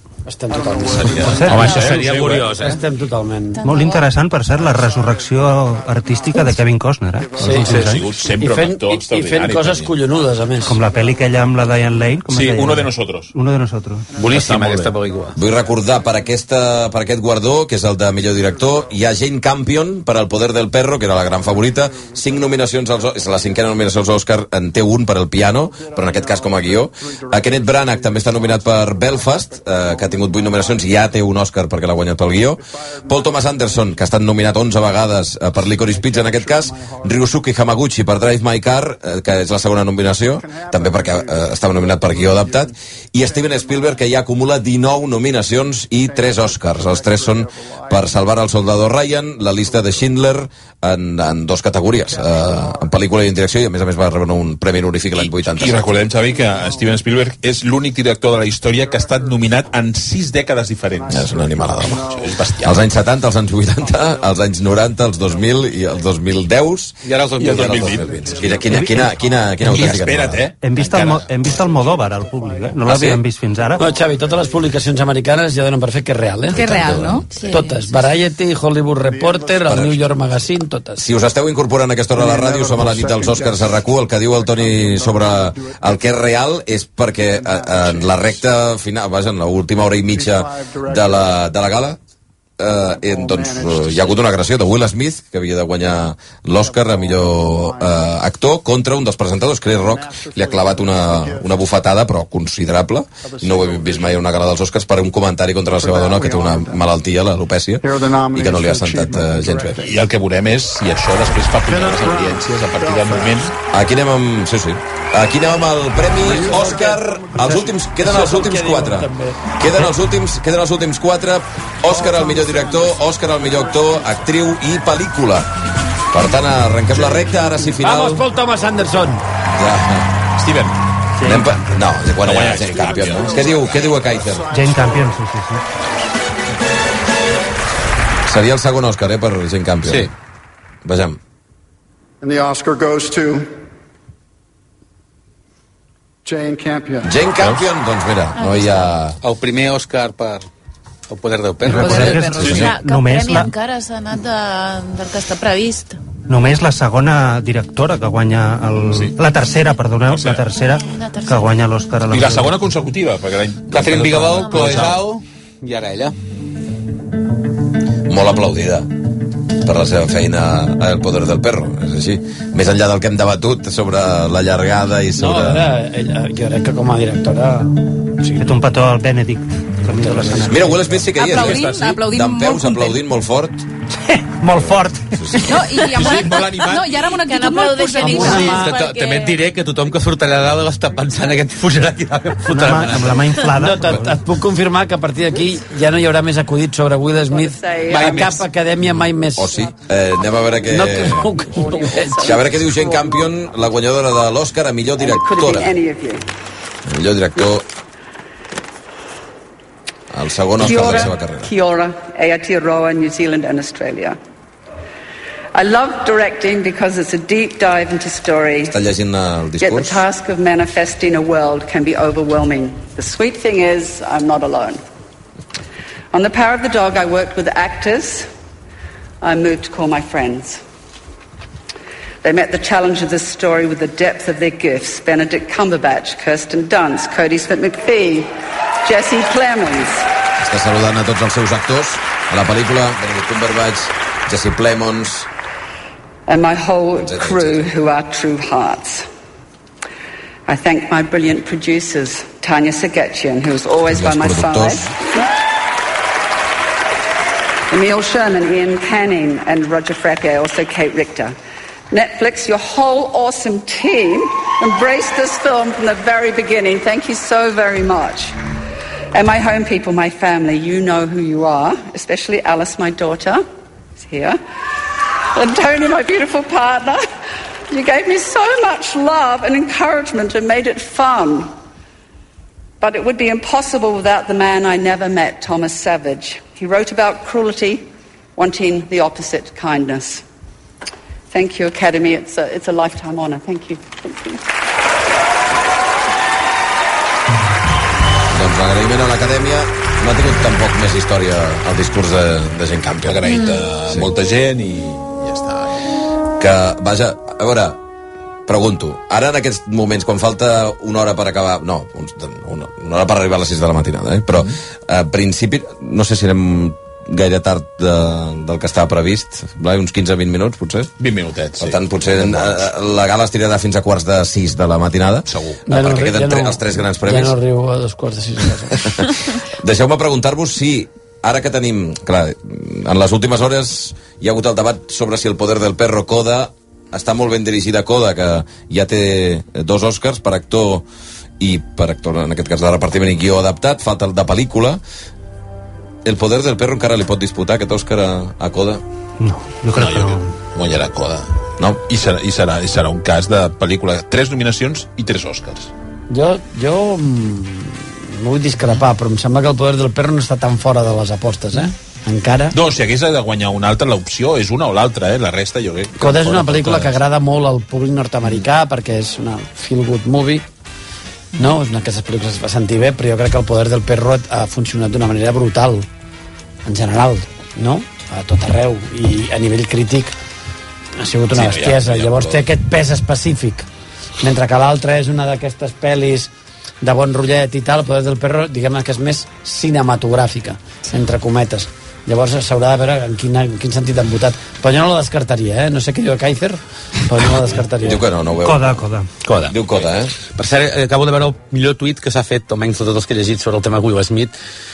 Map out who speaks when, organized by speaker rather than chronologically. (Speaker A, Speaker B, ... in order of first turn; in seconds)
Speaker A: 0.3-3.7, 7.4-7.8, 8.4-10.8, 73.8-81.0, 116.3-119.9, 127.8-129.2, 175.2-178.5, 179.9-180.9, 188.0-188.8, 193.4-199.6, 200.6-202.4, 325.7-328.9, 356.1-362.6, 366.0-370.4, 371.4-375.9, 376.6-380.1, 381.0-383.6, 384.2-386.3, 386.8-398.0
Speaker B: 0.5-1.8, 4.5-8.4, 10.2-12.1, 15.4-16.3, 18.2-19.1, 21.2-23.8, 25.6-31.1, 32.6-34.1, 35.6-37.3, 40.0-44.2, 46.0-48.3, 49.5-50.2, 52.0-53.1, 55.8-57.0, 58.6-59.7, 60.9-62.8, 63.7-66.4, 67.8-69.6, 71.4-72.8, 73.5-74.7, 79.0-79.8, 82.1-86.2, 87.2-88.4, 90.1-91.4, 92.7-94.3, 96.5-98.2, 99.7-101.6, 103.2-104.5, 105.8-106.8, 107.8-110.0, 111.6-113.5, 116.2-117.6, 121.8-124.3, 132.7-135.2, 142.2-143.5, 146.2-147.2
Speaker C: 1.1-2.6, 7.7-10.0, 12.2-13.3, 14.2-14.9, 55.1-62.8, 67.4-68.6, 69.6-71.3, 109.8-113.5, 130.4-130.8, 132.1-133.8, 152.3-152.7, 158.8-159.2, 160.1-160.5, 162.1-165.1, 185.9-186.8, 303.0-305.8, 321.0-322.6, 325.3-325.6, 349.7-355.7, 362.5-367.0, 381.3-382.4
Speaker D: 1.5-2.8, 14.2-15.4, 67.0-68.2, 149.2-150.4, 151.1-152.3, 163.7-166.1, 188.2-193.4, 197.9-198.4, 399.2-399.5, 400.3-404.3
Speaker E: 1.6-1.8, 3.5-4.1, 77.3-77.8, 148.3-148.9, 151.8-156.0, 160.9-161.5, 187.2-189.4
Speaker F: 3.6-8.1, 10.7-14.1, 68.7-69.1, 70.6-73.9, 131.2-131.8, 134.5-135.6, 151.7-153.5, 156.3-162.6, 178.4-180.8, 184.1-185.2, 192.5-194.2, 349.2-350.3, 398.4-399.1
Speaker G: 15.3-56.0, 61.1-70.4, 76.6-77.2, 79.7-80.0, 81.0-92.0, 92.6-109.8, 113.7-125.5, 126.1-128.2, 129.6-130.1, 131.2-134.5, 138.2-140.1, 140.8-141.2, 147.0-149.2, 151.9-152.2, 168.1-168.9, 169.6-175.7, 180.4-183.6, 184.5-185.7, 199.3-201.4, 202.1-205.8, 206.8-207.7, 210.1-211.5, 218.6-220.0, 240.4-245.3, 247.0-247.7, 253.9-254.9, 298.3-303.2, 306.4-307.8, 308.5-320.9, 321.6-327.4, 328.9-340.8, 341.4-344.8, 346.0-348.8, 397.8-398.8, 399.4-400.1
Speaker H: 76.5-77.3, 181.1-183.0, 185.4-188.6
Speaker I: 197.3-198.2, 201.4-202.9, 205.0-206.2, 210.6-214.2, 215.5-218.7, 219.6-224.8, 226.1-228.3, 229.2-230.6, 232.2-238.3, 238.8-240.1, 246.3-249.1, 250.5-255.0, 257.7-261.4, 261.9-268.4, 269.1-273.4, 274.0-274.4, 275.3-277.0, 277.7-281.5, 282.8-290.2, 291.3-294.4